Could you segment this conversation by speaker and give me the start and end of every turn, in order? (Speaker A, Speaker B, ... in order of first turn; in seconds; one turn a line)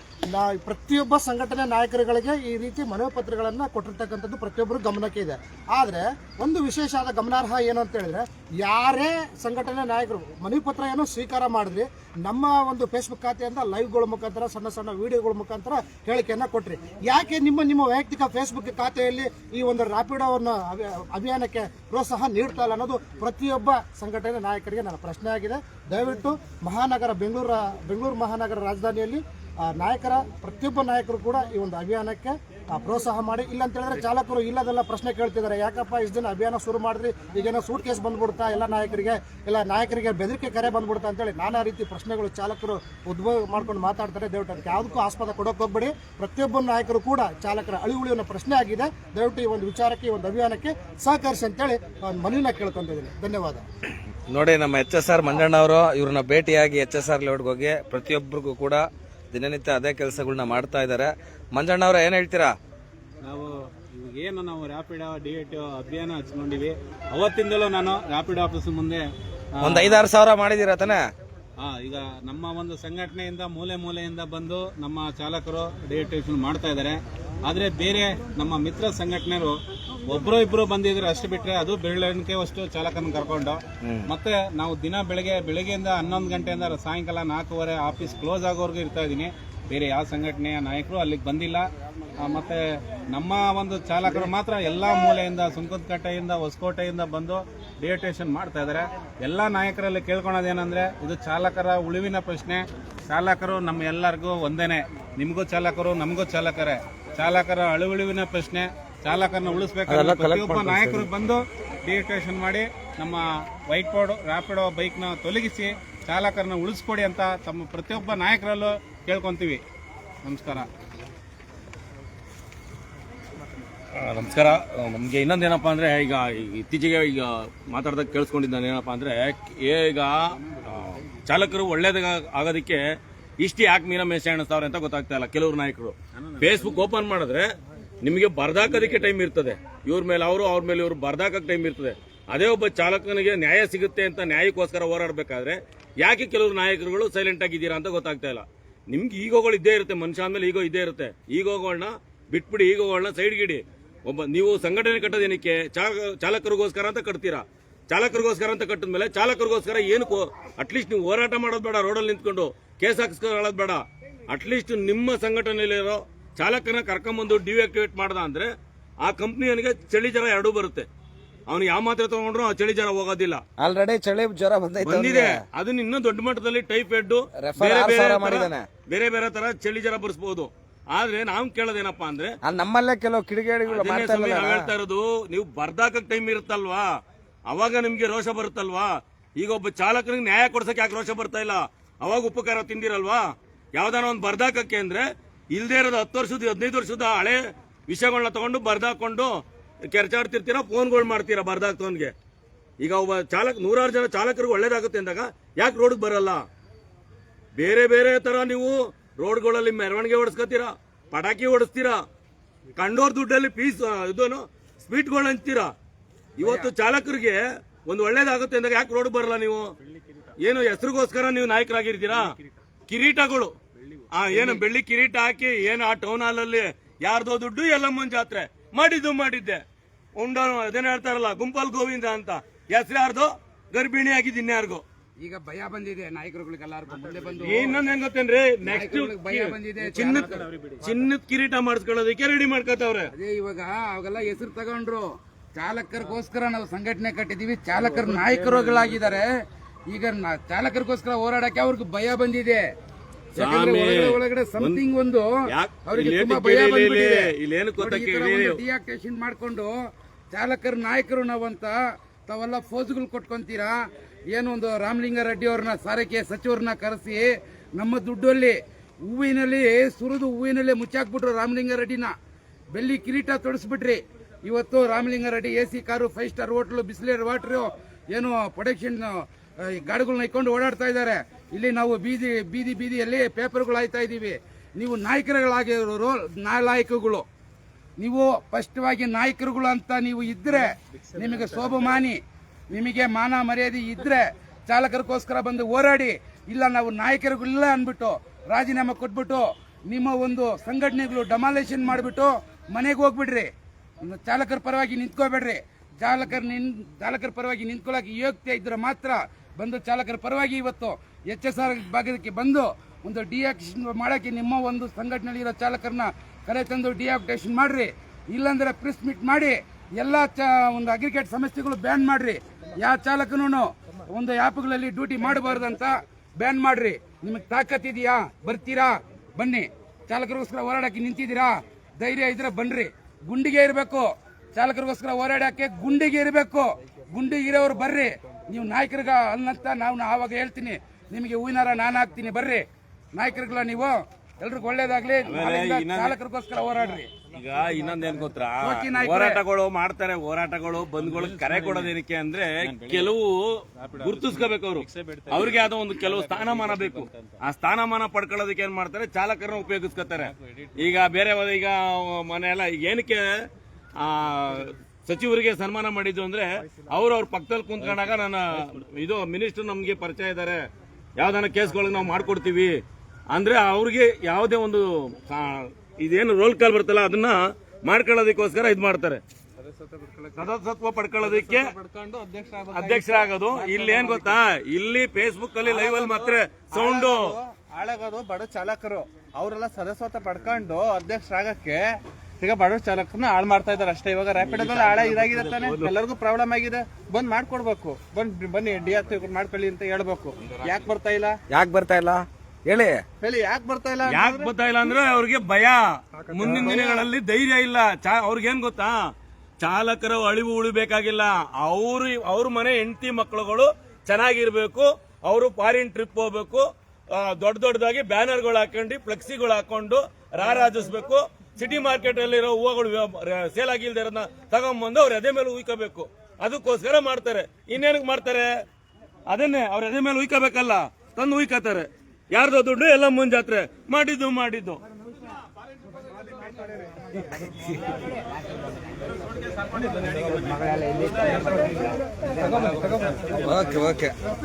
Speaker A: 0.3-53.6
Speaker B: 54.3-62.5
Speaker C: 63.3-69.0
Speaker C: 69.6-70.1
Speaker B: 69.6-71.0
Speaker C: 71.6-91.7
Speaker B: 83.8-84.1
Speaker C: 92.2-92.6
Speaker C: 93.1-119.6
Speaker B: 109.8-111.1
Speaker C: 120.2-120.7
Speaker D: 124.0-130.2
Speaker D: 130.7-132.8
Speaker D: 133.4-168.5
Speaker D: 169.0-170.9
Speaker D: 171.5-173.4
Speaker B: 173.6-175.4
Speaker D: 174.8-182.3
Speaker B: 177.4-178.7
Speaker B: 182.4-184.7
Speaker D: 183.7-186.9
Speaker D: 187.5-195.0
Speaker D: 195.5-202.1
Speaker D: 202.8-206.4
Speaker D: 207.5-212.0
Speaker D: 212.8-215.7
Speaker D: 216.4-219.7
Speaker E: 216.4-216.7
Speaker D: 220.4-222.2
Speaker D: 222.9-223.5
Speaker D: 224.1-229.6
Speaker D: 230.2-234.8
Speaker E: 235.2-237.8
Speaker D: 237.4-243.1
Speaker E: 238.6-240.4
Speaker C: 239.9-240.4
Speaker E: 243.1-249.3
Speaker E: 249.9-252.6
Speaker E: 253.3-255.3
Speaker D: 253.4-254.8
Speaker D: 255.5-258.6
Speaker E: 255.8-259.8
Speaker E: 260.3-263.8
Speaker E: 264.3-268.5
Speaker E: 269.0-272.1
Speaker E: 272.7-287.2
Speaker E: 288.0-292.2
Speaker E: 292.7-303.5
Speaker E: 304.0-347.1
Speaker D: 345.2-346.1
Speaker D: 347.3-353.5
Speaker E: 348.6-349.4
Speaker C: 351.0-351.9
Speaker C: 352.6-353.2
Speaker C: 353.8-357.4
Speaker D: 354.0-363.2
Speaker C: 360.3-360.6
Speaker D: 364.0-370.6
Speaker D: 371.2-372.7
Speaker D: 373.3-379.2
Speaker F: 379.9-380.5
Speaker D: 380.4-381.7
Speaker F: 381.2-384.4
Speaker D: 382.7-387.4
Speaker F: 385.6-401.4
Speaker B: 401.5-403.0
Speaker F: 403.2-404.6
Speaker D: 404.1-409.1
Speaker F: 406.4-406.8
Speaker D: 409.6-428.5
Speaker D: 429.3-434.8
Speaker A: 442.4-443.4
Speaker B: 443.3-444.1